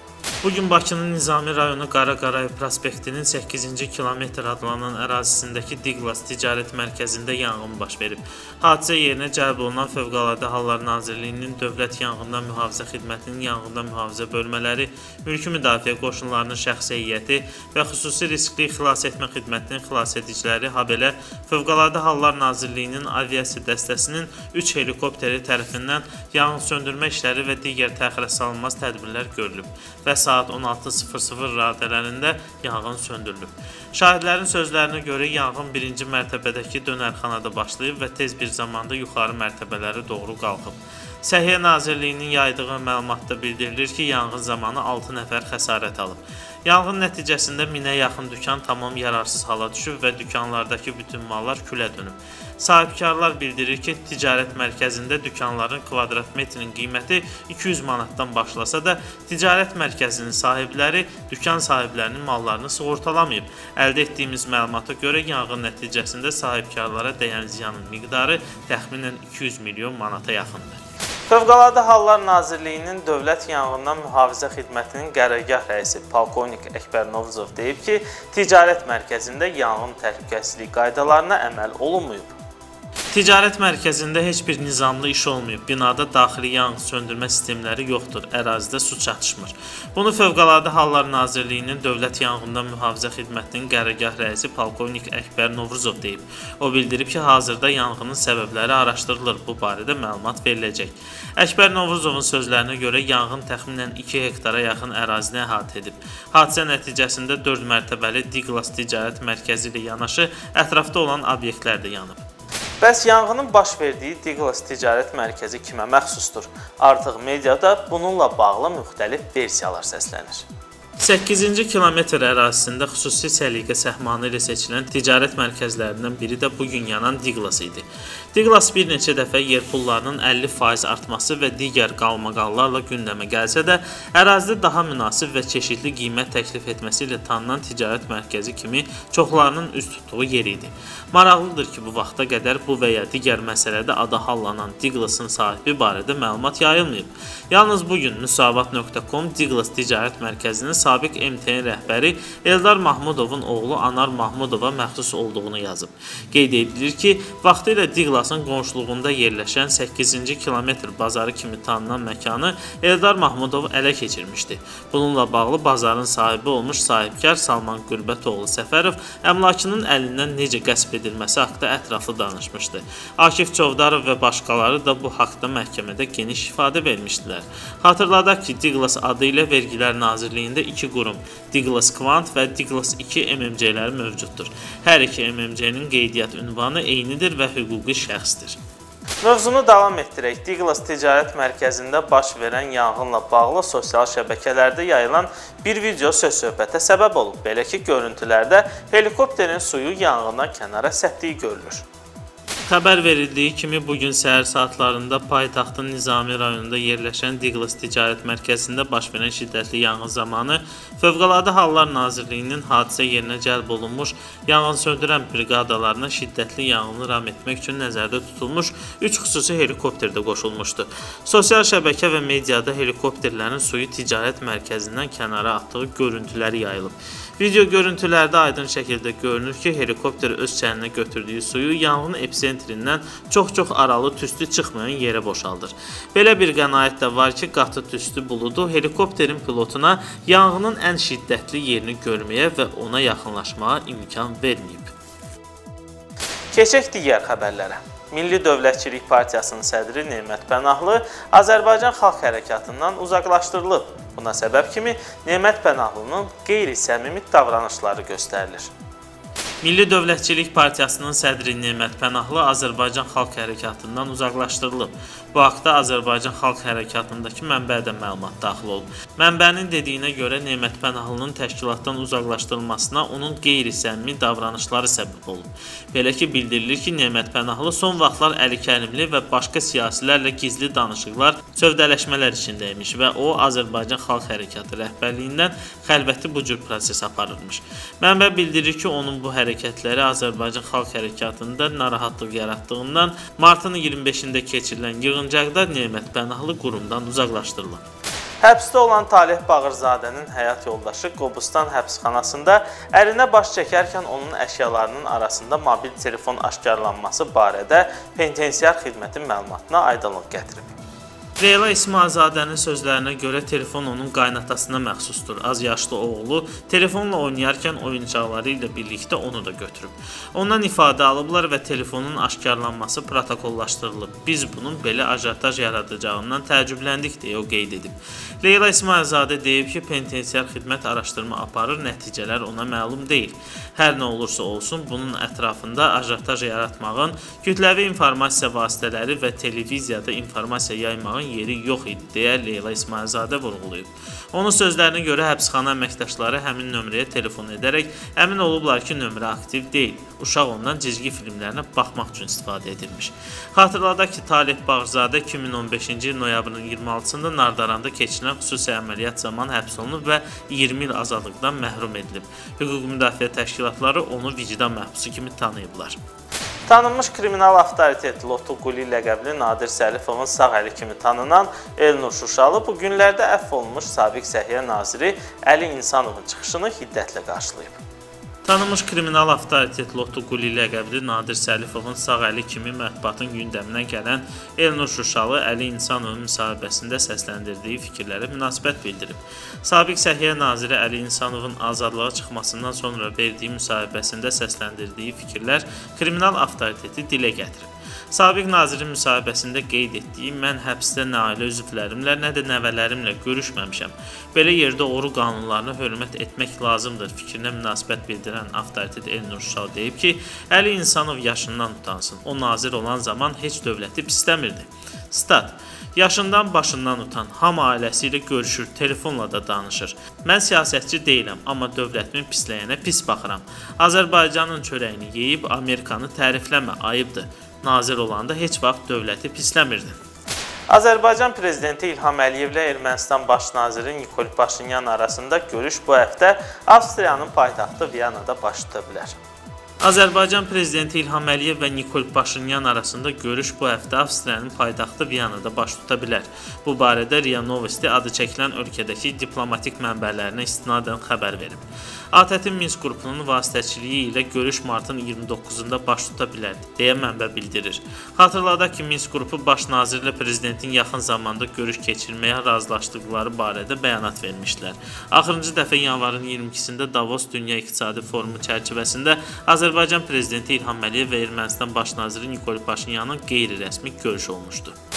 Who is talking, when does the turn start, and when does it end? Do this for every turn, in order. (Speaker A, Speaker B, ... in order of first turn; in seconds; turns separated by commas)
Speaker A: 0.4-82.3, Speaker A: 83.1-112.2, Speaker A: 112.8-120.5, Speaker A: 121.0-188.6, Speaker A: 189.2-201.8, Speaker A: 202.7-244.9, Speaker A: 246.5-258.7, Speaker A: 259.6-297.8, Speaker A: 298.4-310.7, Speaker A: 311.4-366.0, Speaker A: 366.7-377.8, Speaker A: 378.4-430.0, Speaker A: 430.7-439.2, Speaker A: 439.8-474.8